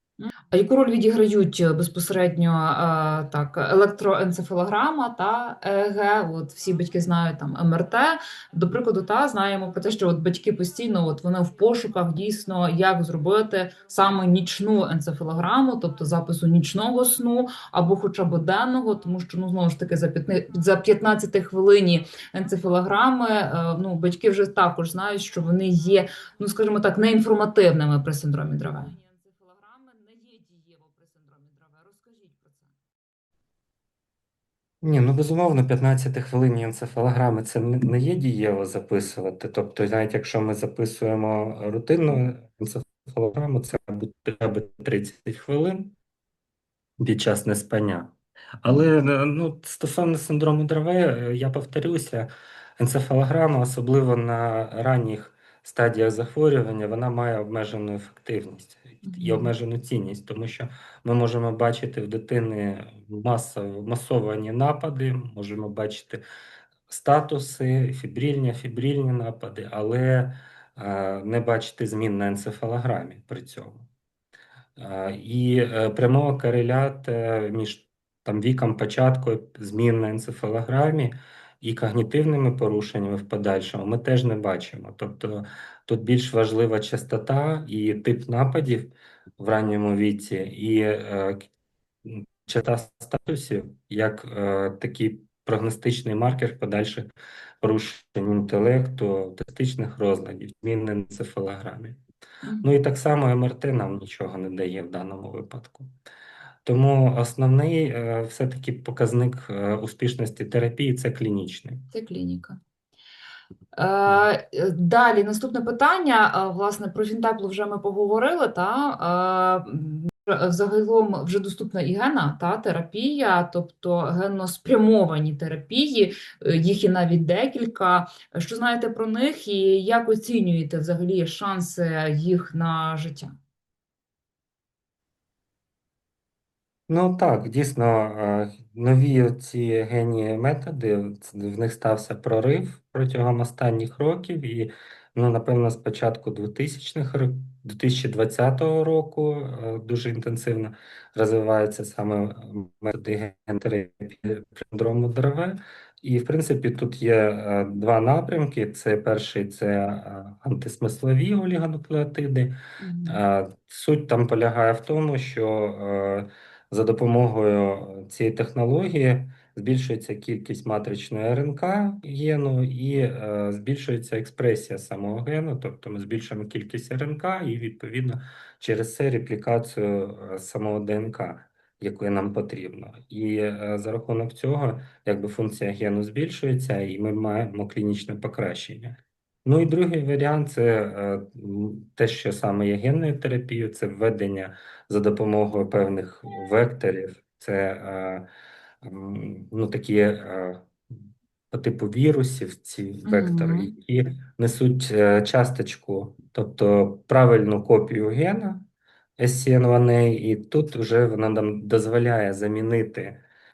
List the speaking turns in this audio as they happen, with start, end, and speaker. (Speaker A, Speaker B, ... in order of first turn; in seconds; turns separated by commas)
Speaker A: 0.2-32.7, Speaker B: 34.8-45.9, Speaker B: 47.0-66.2, Speaker A: 59.0-59.5, Speaker B: 66.9-73.9, Speaker B: 74.8-91.5, Speaker B: 92.0-97.1, Speaker B: 97.6-102.0, Speaker A: 102.4-102.7, Speaker B: 102.6-105.9, Speaker B: 106.6-111.8, Speaker A: 111.9-112.6, Speaker A: 113.8-133.3, Speaker B: 136.9-198.2, Speaker A: 162.8-163.2, Speaker B: 198.8-200.9, Speaker B: 201.5-208.7, Speaker A: 203.0-203.7, Speaker B: 209.2-213.2